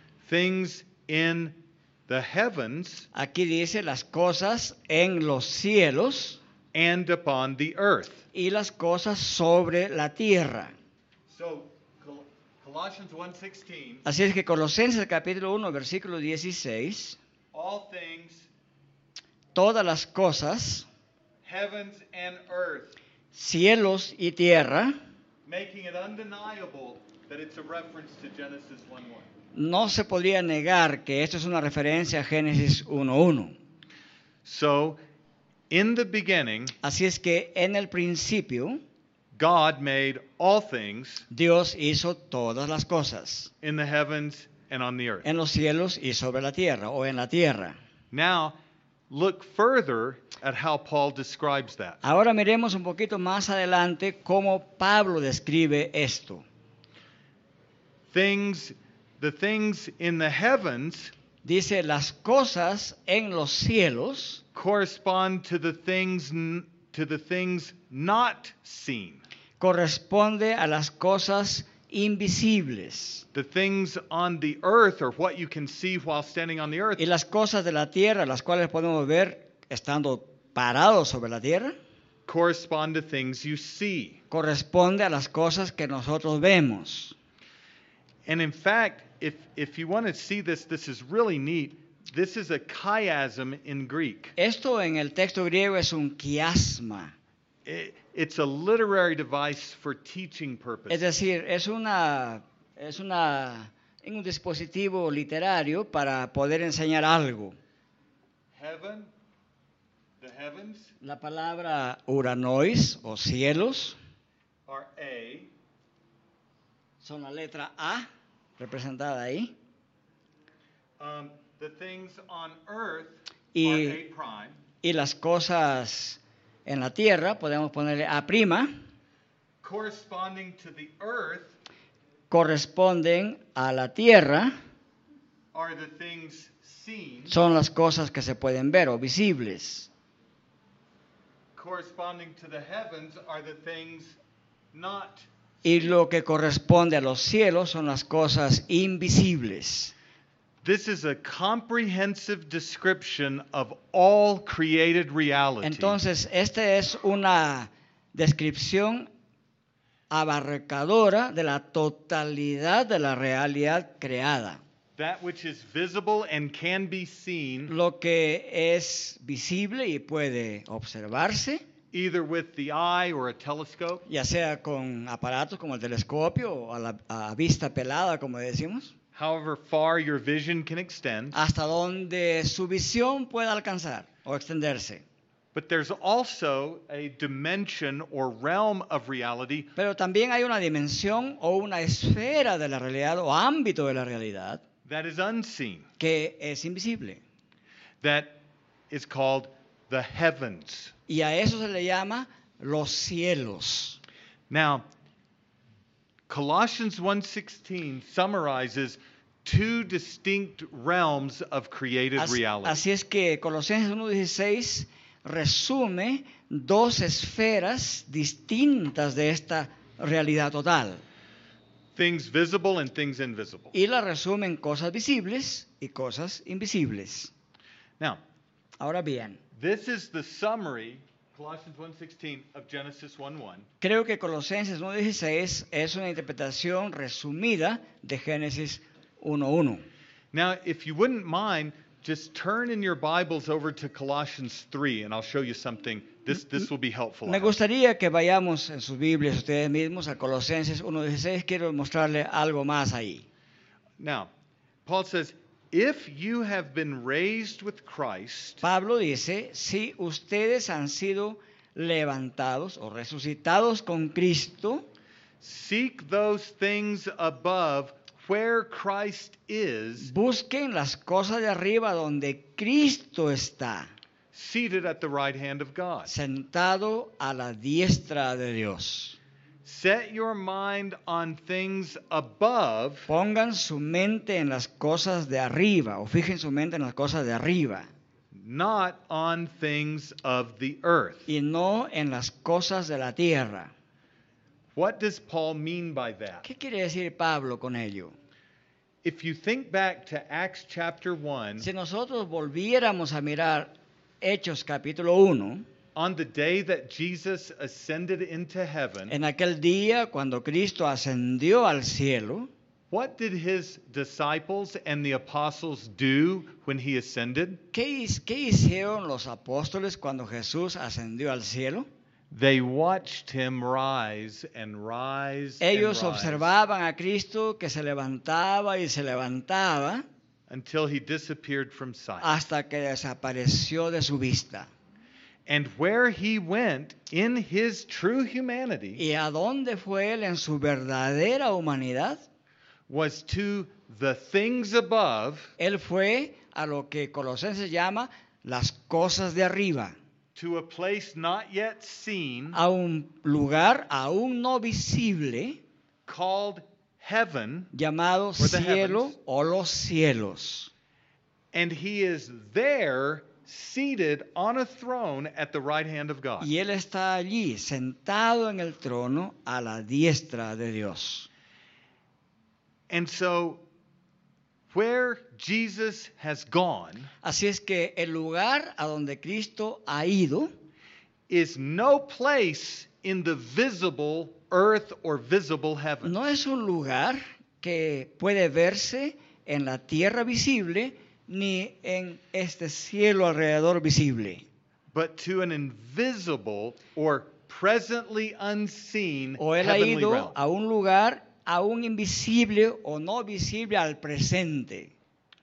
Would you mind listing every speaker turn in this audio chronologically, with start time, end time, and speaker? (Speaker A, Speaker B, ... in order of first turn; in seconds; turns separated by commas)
Speaker A: 0.2-3.1, Speaker B: 3.1-6.4, Speaker A: 6.7-8.2, Speaker B: 8.3-10.7, Speaker A: 11.3-14.0, Speaker B: 14.0-17.2, Speaker A: 17.5-18.5, Speaker B: 19.5-20.9, Speaker A: 21.4-22.9, Speaker B: 23.3-24.9, Speaker A: 25.4-29.3, Speaker B: 29.5-33.5, Speaker A: 34.4-35.0, Speaker A: 35.7-36.7, Speaker B: 36.8-38.8, Speaker A: 39.3-41.3, Speaker B: 41.3-43.5, Speaker A: 43.6-45.3, Speaker B: 45.2-47.8, Speaker A: 48.1-48.6, Speaker A: 49.1-52.0, Speaker B: 52.0-56.5, Speaker A: 58.1-61.1, Speaker B: 61.4-64.4, Speaker A: 64.5-69.2, Speaker B: 69.6-73.2, Speaker A: 73.3-77.0, Speaker B: 77.0-81.8, Speaker A: 82.2-84.2, Speaker B: 84.3-87.2, Speaker A: 88.2-94.3, Speaker B: 94.4-97.1, Speaker A: 97.6-101.1, Speaker B: 100.9-107.6, Speaker A: 108.5-109.1, Speaker A: 110.2-110.9, Speaker B: 111.0-114.0, Speaker A: 114.7-115.5, Speaker B: 117.0-119.5, Speaker A: 121.0-124.6, Speaker B: 123.5-124.0, Speaker B: 124.8-128.7, Speaker A: 129.6-131.6, Speaker B: 132.3-134.5, Speaker A: 135.5-137.3, Speaker B: 137.3-139.9, Speaker A: 141.5-144.2, Speaker A: 144.7-145.3, Speaker B: 145.6-149.9, Speaker A: 150.6-156.0, Speaker B: 155.6-159.1, Speaker B: 160.1-164.6, Speaker A: 165.0-167.7, Speaker B: 167.7-171.6, Speaker A: 171.9-174.1, Speaker B: 174.1-178.9, Speaker A: 179.1-181.4, Speaker B: 181.3-185.0, Speaker A: 185.5-189.7, Speaker B: 189.8-194.6, Speaker A: 194.8-195.9, Speaker B: 196.0-197.2, Speaker A: 198.0-200.9, Speaker B: 201.1-204.0, Speaker A: 204.5-204.8, Speaker A: 206.3-212.8, Speaker B: 212.2-221.0, Speaker A: 221.9-223.7, Speaker B: 223.7-227.3, Speaker B: 228.8-229.4, Speaker A: 229.5-233.7, Speaker B: 233.8-239.9, Speaker A: 240.3-247.5, Speaker B: 247.2-253.3, Speaker A: 254.0-254.3, Speaker A: 254.8-258.6, Speaker B: 258.6-264.9, Speaker A: 265.4-270.1, Speaker B: 270.0-273.9, Speaker A: 274.3-276.1, Speaker B: 276.1-279.2, Speaker A: 279.6-283.1, Speaker B: 283.1-287.9, Speaker A: 288.3-291.3, Speaker B: 291.3-293.7, Speaker A: 294.7-296.4, Speaker B: 296.4-298.1, Speaker A: 299.0-301.7, Speaker B: 301.6-305.6, Speaker A: 305.9-309.1, Speaker B: 309.1-312.5, Speaker A: 312.9-317.6, Speaker B: 317.7-321.9, Speaker A: 322.3-326.5, Speaker B: 325.6-330.1, Speaker A: 330.5-332.3, Speaker B: 332.2-334.7, Speaker A: 335.4-339.0, Speaker B: 339.0-342.2, Speaker A: 342.9-345.5, Speaker B: 345.6-350.0, Speaker A: 350.3-352.6, Speaker B: 352.5-355.6, Speaker A: 356.1-357.7, Speaker B: 357.7-360.7, Speaker A: 358.4-359.1, Speaker A: 361.5-366.5, Speaker B: 366.4-371.3, Speaker A: 372.9-373.6, Speaker A: 374.7-377.1, Speaker B: 377.2-380.5, Speaker A: 381.3-386.1, Speaker B: 386.0-394.4, Speaker A: 394.9-400.4, Speaker B: 399.4-404.9